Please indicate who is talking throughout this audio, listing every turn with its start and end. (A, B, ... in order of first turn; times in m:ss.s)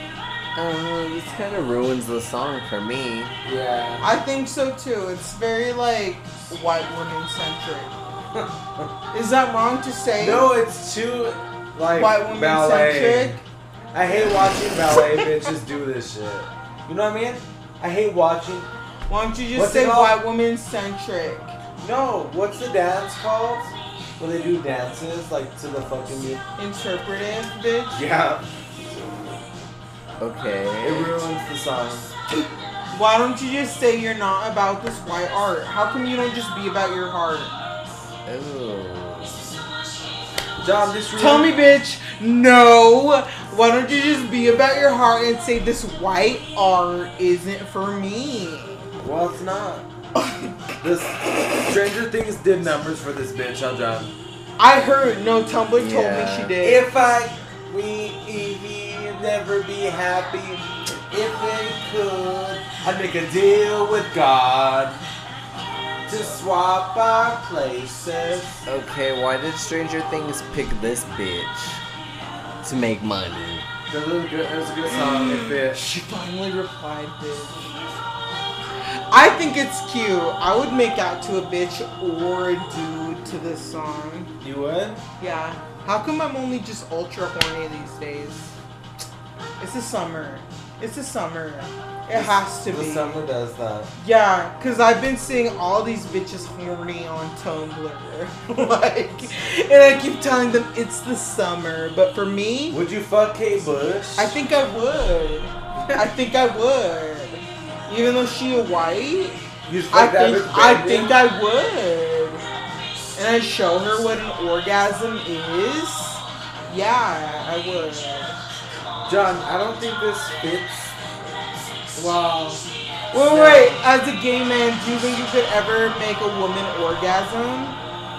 0:00.6-0:03.3 A
0:03.4-0:04.0 B
0:04.0-0:07.9 C
0:08.3-0:08.9 B
0:09.1-0:10.5 C
0:10.2-0:18.7 B
0:11.9-0:13.4 C
0:19.1-0:21.5 C
0:19.5-0:20.2 B
0:21.8-0:26.4 B
0:26.6-0:28.0 C
0:27.9-0:29.4 B
0:30.2-0:31.2 A
0:30.8-0:32.1 B
0:32.9-0:37.5 C
0:38.2-0:39.5 A
0:40.6-0:41.5 B
0:41.2-0:48.9 C
0:49.0-0:49.9 B
0:50.8-0:54.1 B
0:54.6-0:57.0 C
0:55.7-0:56.5 A
0:56.6-1:05.0 B
1:06.0-1:08.6 B
1:08.6-1:11.8 A
1:12.6-1:13.7 A
1:13.9-1:15.8 B
1:14.8-1:17.9 C
1:19.1-1:24.3 C
1:24.4-1:25.0 B
1:25.2-1:28.6 C
1:29.6-1:33.2 C
1:32.1-1:33.9 B
1:34.0-1:42.8 C
1:42.7-1:44.3 B
1:44.2-1:52.4 C
1:49.7-1:51.2 B
1:53.2-1:58.4 C
1:59.0-2:00.9 B
2:01.9-2:03.8 B
2:03.1-2:07.8 C